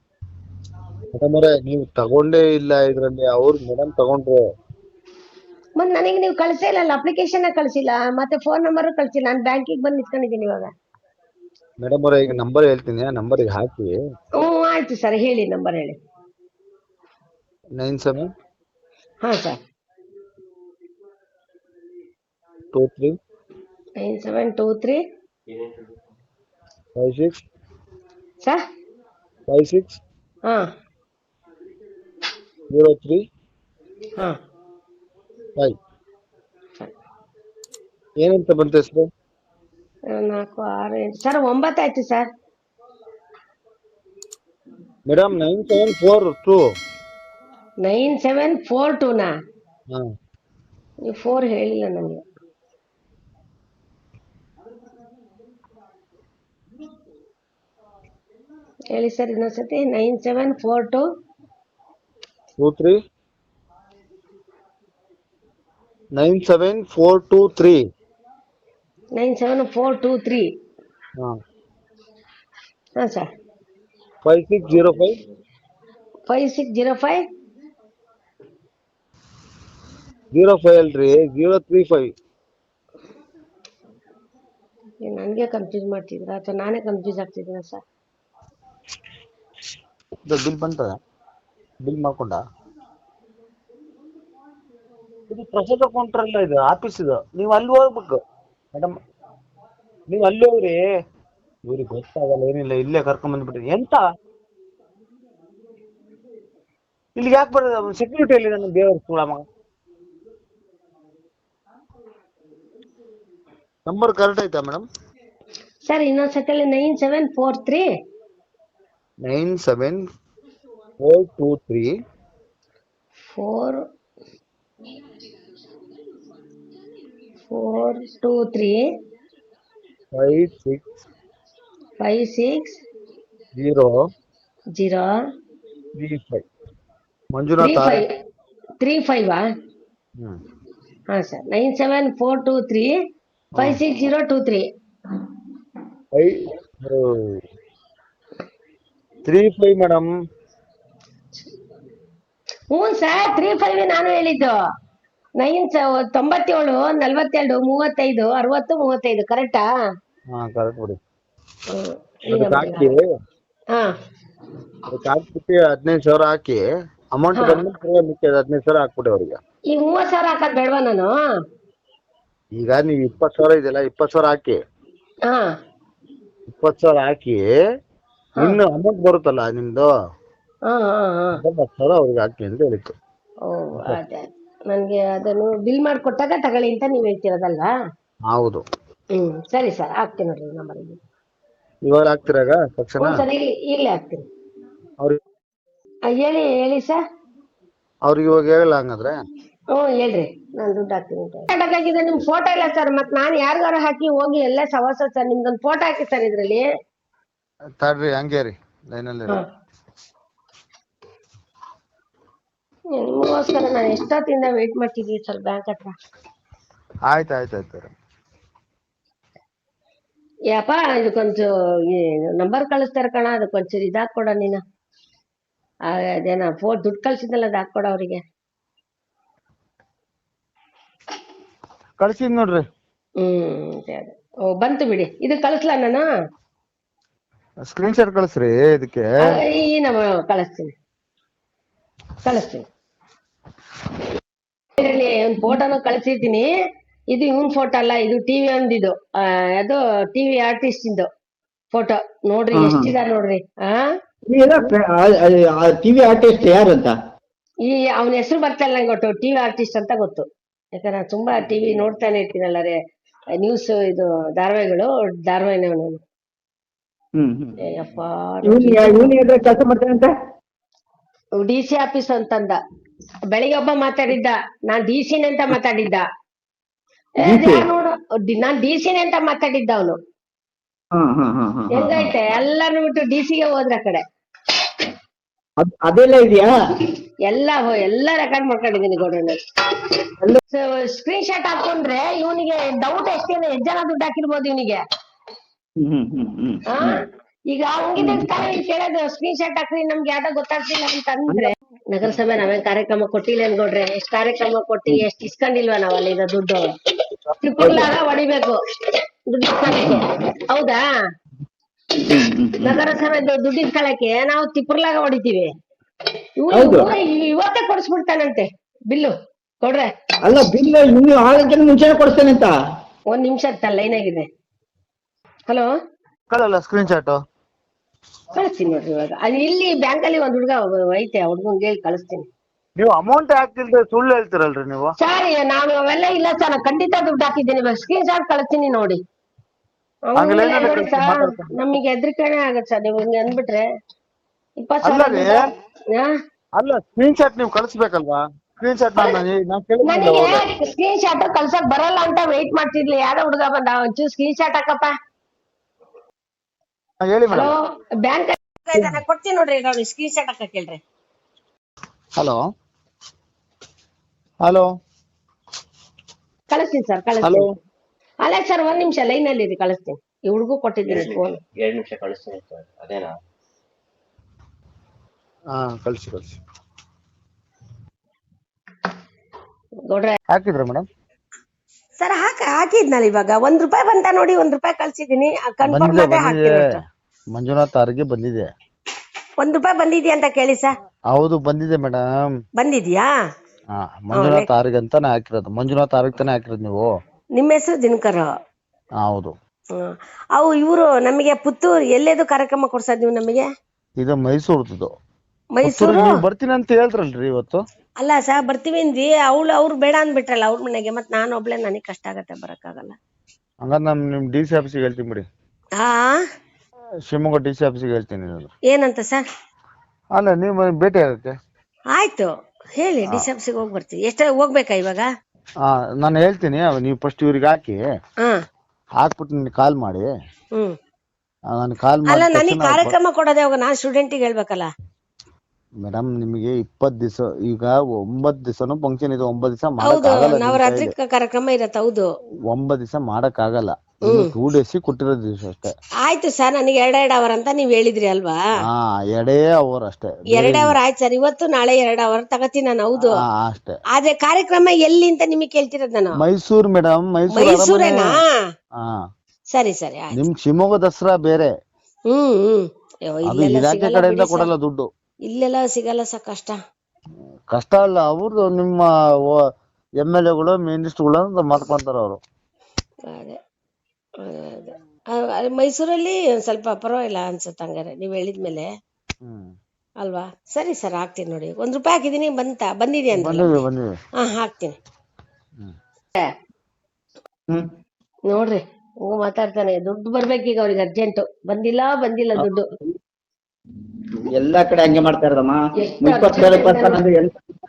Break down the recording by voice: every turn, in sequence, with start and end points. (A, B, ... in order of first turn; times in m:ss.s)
0:01.2-0:04.4 A
0:05.8-0:10.7 B
0:11.8-0:13.9 A
0:14.4-0:16.0 B
0:17.8-0:18.3 A
0:19.2-0:19.6 B
0:22.7-0:23.2 A
0:24.0-0:25.0 B
0:27.0-0:27.4 A
0:29.5-0:30.0 A
0:32.7-0:33.2 A
0:38.2-0:39.1 A
0:40.1-0:42.3 B
0:45.1-0:46.6 A
0:47.8-0:49.3 B
0:51.0-0:52.2 B
0:58.9-1:01.0 B
1:02.6-1:03.0 A
1:06.1-1:07.8 A
1:09.1-1:10.5 B
1:13.0-1:13.2 B
1:14.2-1:15.2 A
1:16.3-1:17.2 B
1:20.3-1:22.1 A
1:25.0-1:27.8 B
1:30.2-1:31.0 A
1:31.8-1:32.4 A
1:35.3-1:38.2 A
1:40.1-1:40.8 A
1:41.7-1:44.0 A
1:47.2-1:49.4 A
1:53.8-1:54.8 A
1:55.8-1:57.8 B
1:59.2-2:00.0 A
2:01.0-2:01.9 A
2:03.3-2:03.8 B
2:07.5-2:08.8 B
2:10.1-2:10.8 A
2:12.0-2:12.8 B
2:13.6-2:13.9 A
2:14.7-2:15.1 B
2:16.0-2:16.4 A
2:17.3-2:18.0 A
2:17.6-2:18.0 B
2:18.8-2:19.4 B
2:21.1-2:22.9 B
2:23.6-2:24.6 B
2:26.1-2:27.4 A
2:29.2-2:30.1 A
2:32.7-2:34.5 B
2:35.4-2:39.6 B
2:40.3-2:41.0 A
2:41.7-2:42.9 B
2:42.3-2:43.0 A
2:44.9-2:46.6 A
2:47.1-2:49.4 A
2:47.3-2:47.6 B
2:49.7-2:51.1 B
2:52.6-2:54.6 A
2:56.5-2:57.4 A
2:58.4-2:59.9 A
3:00.6-3:01.4 B
3:01.4-3:02.9 A
3:03.5-3:07.7 B
3:08.3-3:08.6 A
3:09.1-3:11.0 B
3:11.8-3:13.2 A
3:13.0-3:14.2 B
3:16.1-3:17.0 B
3:18.0-3:19.2 A
3:19.7-3:26.7 B
3:27.8-3:29.4 A
3:33.0-3:35.9 B
3:37.1-3:37.9 A
3:40.5-3:44.6 B
3:45.9-3:48.2 B
3:52.0-3:52.6 A
3:53.2-3:56.0 B
3:57.6-3:59.4 A
3:59.3-4:00.7 B
4:02.2-4:02.6 B
4:04.8-4:06.5 B
4:07.1-4:11.1 B
4:11.7-4:13.9 B
4:12.5-4:12.9 C
4:14.3-4:16.9 C
4:17.6-4:22.7 B
4:23.4-4:26.0 B
4:27.2-4:27.6 C
4:27.6-4:29.2 B
4:28.4-4:30.1 C
4:31.4-4:32.6 B
4:33.3-4:36.0 B
4:37.2-4:37.6 C
4:37.2-4:40.0 B
4:40.9-4:42.1 C
4:41.7-4:44.0 B
4:45.6-4:46.5 C
4:47.2-4:49.9 B
4:50.5-4:54.8 B
4:55.8-4:57.0 C
4:56.7-5:06.6 B
4:58.0-4:58.2 C
5:07.4-5:08.6 B
5:07.6-5:07.9 C
5:09.3-5:10.8 B
5:12.0-5:12.8 C
5:12.6-5:15.5 B
5:16.4-5:19.9 B
5:16.5-5:16.9 C
5:20.2-5:22.5 C
5:23.1-5:24.2 B
5:26.3-5:27.2 A
5:28.3-5:32.2 B
5:32.8-5:34.9 A
5:35.0-5:39.0 B
5:40.1-5:43.6 B
5:40.2-5:41.5 A
5:44.6-5:45.4 B
5:44.8-5:45.4 A
5:46.6-5:50.5 A
5:49.8-5:54.9 B
5:57.0-5:57.5 A
5:57.3-6:00.8 B
5:58.7-5:59.0 A
6:04.4-6:04.7 A
6:06.5-6:07.5 B
6:08.2-6:11.4 B
6:10.9-6:13.1 D
6:15.5-6:16.4 A
6:19.9-6:20.2 B
6:20.3-6:20.8 A
6:22.0-6:26.8 B
6:25.6-6:26.6 A
6:27.3-6:28.5 A
6:29.4-6:30.7 B
6:31.1-6:32.2 A
6:32.6-6:33.1 B
6:33.8-6:36.9 A
6:34.1-6:34.5 B
6:37.4-6:38.3 B
6:39.0-6:39.3 A
6:39.8-6:43.5 B
6:44.0-6:44.9 A
6:45.5-6:46.2 B
6:45.6-6:47.6 A
6:48.0-6:52.9 B
6:53.6-6:55.2 A
6:55.8-6:56.2 B
6:57.0-6:58.5 A
6:58.7-6:59.2 B
7:00.2-7:01.3 A
7:01.9-7:05.1 B
7:05.6-7:07.8 A
7:09.0-7:10.1 A
7:11.5-7:13.0 A
7:12.1-7:14.7 B
7:15.8-7:20.9 A
7:19.8-7:22.1 B
7:22.5-7:25.7 A
7:26.0-7:28.4 B
7:28.6-7:30.8 A
7:30.3-7:33.2 B
7:33.3-7:33.8 A
7:33.9-7:36.2 B
7:36.2-7:38.2 A
7:37.3-7:38.4 B
7:39.5-7:40.2 B
7:40.1-7:41.5 A
7:42.1-7:44.5 B
7:43.3-7:44.9 A
7:45.3-7:46.6 B
7:47.5-7:49.4 A
7:50.0-7:52.2 A
7:53.1-7:53.4 B
7:54.2-7:58.7 B
7:59.2-7:59.5 A
8:00.0-8:03.6 B
8:03.1-8:03.9 A
8:04.2-8:04.8 B
8:08.3-8:12.6 B
8:14.2-8:17.4 C
8:15.8-8:17.0 B